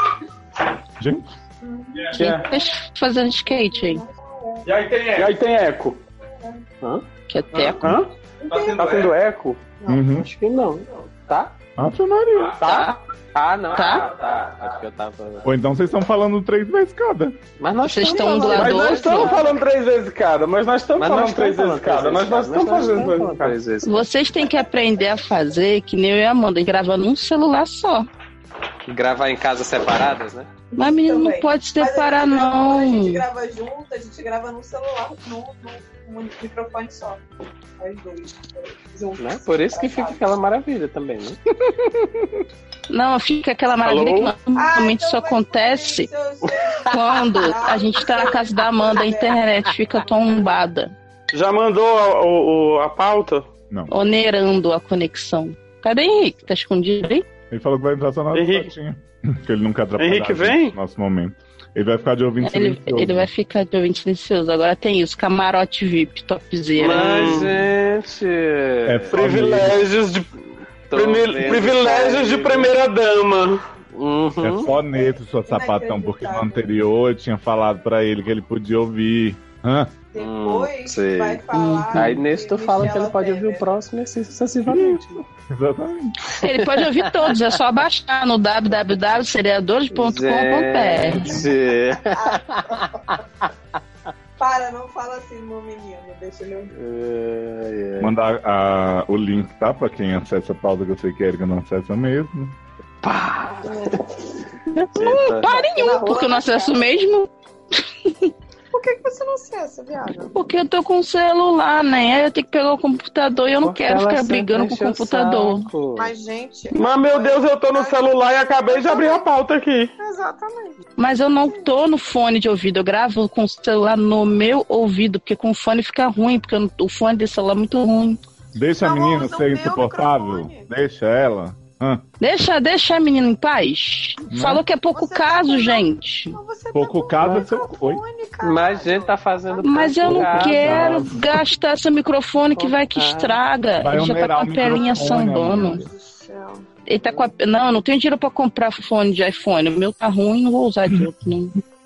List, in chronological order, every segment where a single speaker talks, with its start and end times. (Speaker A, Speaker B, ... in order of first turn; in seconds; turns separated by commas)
Speaker A: 1.0-1.3, Speaker B: 1.6-2.2, Speaker C: 2.0-2.4, Speaker D: 2.1-4.0, Speaker B: 3.4-4.7, Speaker C: 5.1-6.0, Speaker D: 7.3-8.0, Speaker C: 7.5-9.6, Speaker B: 8.4-9.0, Speaker A: 9.9-10.3, Speaker E: 10.2-11.6, Speaker A: 11.8-12.6, Speaker C: 12.6-12.9, Speaker D: 12.6-13.0, Speaker E: 13.3-15.5, Speaker D: 13.7-14.1, Speaker A: 15.4-17.4, Speaker E: 17.6-19.2, Speaker D: 17.8-19.3, Speaker B: 18.0-19.6, Speaker C: 18.5-23.6, Speaker E: 20.9-24.1, Speaker D: 23.8-28.1, Speaker E: 28.9-30.5, Speaker B: 30.7-37.2, Speaker D: 30.8-33.2, Speaker B: 37.8-40.2, Speaker E: 39.2-41.4, Speaker D: 42.9-46.1, Speaker C: 43.8-44.3, Speaker B: 44.5-49.4, Speaker D: 46.9-50.9, Speaker C: 51.3-53.5, Speaker D: 53.9-57.2, Speaker A: 57.5-63.3, Speaker C: 58.3-58.7, Speaker C: 60.0-60.8, Speaker D: 62.4-67.2, Speaker E: 66.8-69.2, Speaker C: 66.8-67.7, Speaker A: 68.9-69.8, Speaker C: 69.1-70.3, Speaker E: 70.9-72.7, Speaker C: 70.9-73.6, Speaker B: 71.4-72.5, Speaker E: 73.9-74.7, Speaker A: 74.4-79.9, Speaker B: 74.7-76.7, Speaker B: 80.1-83.6, Speaker E: 80.2-81.4, Speaker D: 81.5-82.2, Speaker E: 81.9-85.2, Speaker A: 84.7-86.1, Speaker D: 86.4-91.4, Speaker E: 86.4-87.4, Speaker E: 89.9-92.8, Speaker B: 92.1-93.0, Speaker B: 94.4-96.7, Speaker E: 96.7-98.1, Speaker A: 98.0-102.6, Speaker E: 103.0-104.0, Speaker B: 103.6-104.1, Speaker D: 104.7-107.3, Speaker E: 105.0-105.5, Speaker B: 105.4-107.0, Speaker B: 108.7-110.3, Speaker D: 110.3-115.7, Speaker E: 113.6-116.1, Speaker B: 116.0-119.3, Speaker C: 116.7-119.9, Speaker B: 120.0-120.8, Speaker D: 121.0-128.2, Speaker B: 121.4-121.7, Speaker A: 128.6-132.0, Speaker B: 128.8-130.7, Speaker D: 132.2-136.4, Speaker A: 134.3-134.6, Speaker B: 134.9-140.2, Speaker A: 136.7-138.0, Speaker E: 138.4-141.1, Speaker D: 139.6-145.8, Speaker A: 140.0-141.3, Speaker E: 142.6-143.4, Speaker A: 143.8-145.9, Speaker B: 144.7-146.7, Speaker D: 146.9-151.6